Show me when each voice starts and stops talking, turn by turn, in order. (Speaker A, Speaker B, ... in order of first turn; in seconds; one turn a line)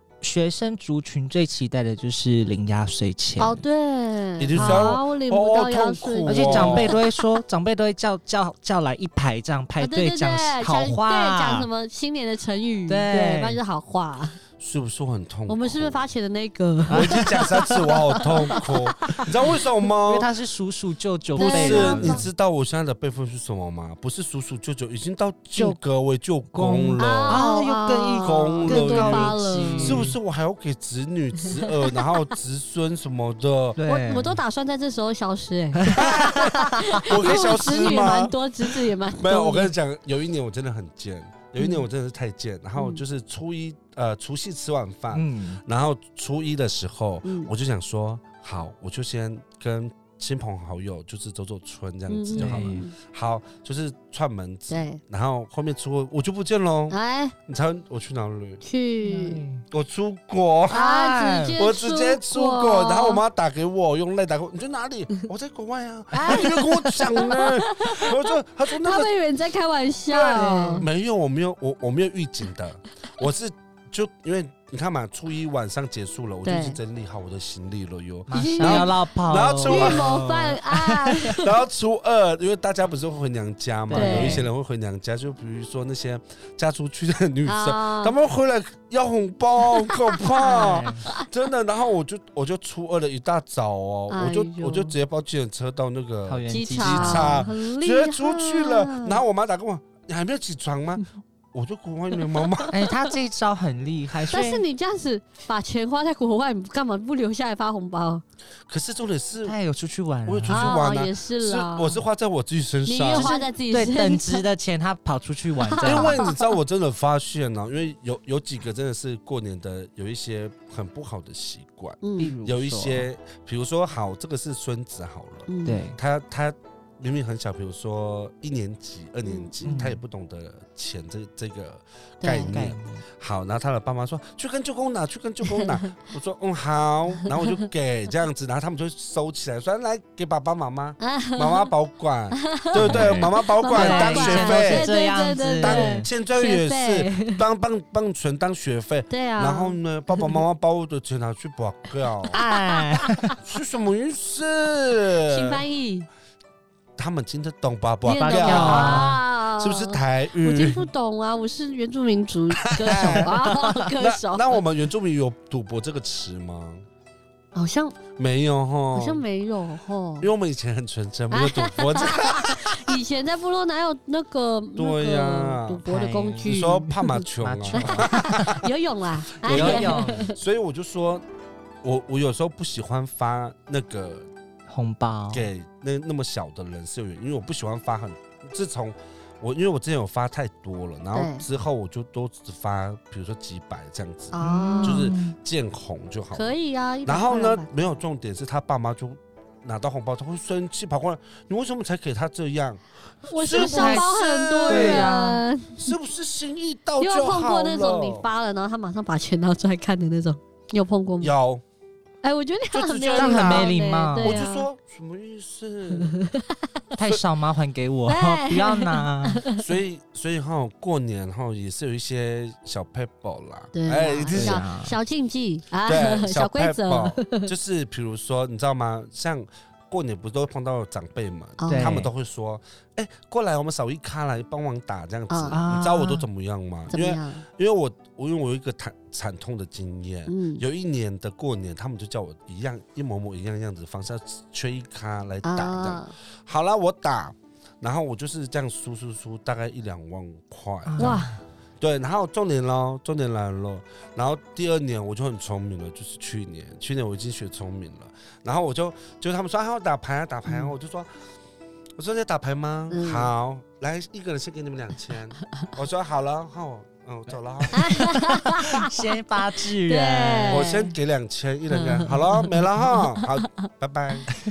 Speaker A: 0.2-3.6
Speaker B: 3.4-7.0
Speaker C: 4.4-7.0
Speaker A: 4.5-4.9
Speaker A: 6.3-11.7
Speaker B: 9.8-14.4
Speaker A: 12.9-13.6
Speaker C: 14.6-16.0
Speaker B: 15.5-17.5
Speaker A: 16.9-17.9
Speaker C: 16.9-20.3
Speaker B: 18.2-19.2
Speaker A: 20.0-22.3
Speaker B: 21.4-22.2
Speaker C: 21.4-27.5
Speaker A: 26.5-30.2
Speaker B: 27.0-30.0
Speaker C: 28.2-33.8
Speaker B: 31.4-31.7
Speaker A: 33.8-34.4
Speaker B: 33.9-39.7
Speaker A: 35.8-37.0
Speaker C: 35.9-38.4
Speaker C: 39.2-57.0
Speaker B: 42.8-43.0
Speaker A: 45.1-45.6
Speaker B: 47.2-47.5
Speaker B: 52.1-52.9
Speaker A: 52.4-52.8
Speaker B: 54.7-55.0
Speaker B: 56.9-57.3
Speaker C: 57.5-58.6
Speaker B: 58.6-59.4
Speaker A: 59.0-59.6
Speaker C: 59.7-60.9
Speaker B: 60.7-63.2
Speaker A: 60.7-61.5
Speaker C: 61.5-69.1
Speaker B: 66.1-68.2
Speaker B: 68.8-70.8
Speaker C: 70.1-80.2
Speaker A: 70.4-70.8
Speaker B: 76.4-76.8
Speaker A: 78.3-81.3
Speaker B: 78.3-79.0
Speaker B: 79.6-81.5
Speaker C: 81.3-102.8
Speaker A: 83.9-84.5
Speaker B: 83.9-84.4
Speaker B: 87.5-88.1
Speaker B: 89.9-91.2
Speaker A: 90.4-91.0
Speaker B: 94.1-94.9
Speaker A: 96.3-97.5
Speaker B: 96.5-99.2
Speaker B: 102.3-102.7
Speaker A: 102.7-104.6
Speaker B: 104.3-108.2
Speaker C: 108.7-109.6
Speaker A: 109.4-110.8
Speaker C: 110.2-113.3
Speaker B: 110.5-112.0
Speaker B: 112.8-114.4
Speaker A: 113.1-116.4
Speaker B: 115.6-116.3
Speaker C: 115.8-144.9
Speaker B: 122.0-122.3
Speaker A: 122.2-123.0
Speaker B: 125.5-125.8
Speaker A: 125.6-126.0
Speaker B: 129.2-129.6
Speaker A: 129.6-130.0
Speaker B: 132.2-132.5
Speaker A: 132.5-133.0
Speaker B: 135.5-135.9
Speaker B: 141.0-141.7
Speaker B: 142.4-147.4
Speaker A: 142.8-146.1
Speaker C: 145.6-152.4
Speaker B: 149.1-150.4
Speaker B: 152.3-153.3
Speaker A: 152.3-153.3
Speaker C: 153.4-155.6
Speaker B: 155.2-156.1
Speaker C: 157.0-160.9
Speaker B: 158.0-164.6
Speaker A: 158.3-159.2
Speaker C: 162.6-166.8
Speaker A: 162.8-163.7
Speaker B: 167.5-168.0
Speaker C: 168.2-169.2
Speaker B: 168.9-170.3
Speaker C: 170.2-173.0
Speaker B: 171.3-177.2
Speaker C: 174.8-175.8
Speaker A: 175.8-176.6
Speaker C: 176.4-178.6
Speaker A: 177.4-178.6
Speaker B: 177.8-180.4
Speaker C: 179.4-181.2
Speaker A: 179.4-180.3
Speaker C: 181.8-184.3
Speaker A: 184.7-185.5
Speaker C: 185.3-196.5
Speaker B: 191.1-191.4
Speaker B: 194.3-195.1
Speaker A: 194.4-195.3
Speaker B: 196.3-197.7
Speaker C: 197.1-205.1
Speaker B: 203.2-205.9
Speaker A: 203.5-204.1
Speaker A: 204.7-205.4
Speaker C: 205.8-208.3
Speaker B: 207.0-211.3
Speaker C: 211.2-211.6
Speaker B: 212.2-214.7
Speaker C: 212.7-216.1
Speaker A: 213.2-214.4
Speaker B: 215.9-216.7
Speaker A: 216.9-219.4
Speaker B: 218.1-219.6
Speaker C: 219.6-224.6
Speaker B: 223.7-227.5
Speaker A: 224.3-224.9
Speaker C: 225.9-251.2
Speaker B: 231.6-232.1
Speaker A: 231.7-232.1
Speaker B: 235.3-235.6
Speaker A: 235.5-236.2
Speaker B: 236.9-237.4
Speaker B: 240.3-240.6
Speaker B: 245.4-246.1
Speaker A: 250.9-251.4
Speaker B: 251.0-251.4
Speaker C: 251.8-261.1
Speaker C: 262.0-268.0
Speaker B: 262.9-263.3
Speaker B: 267.7-268.9
Speaker A: 268.3-270.7
Speaker B: 269.9-270.9
Speaker C: 270.5-274.3
Speaker B: 271.7-273.6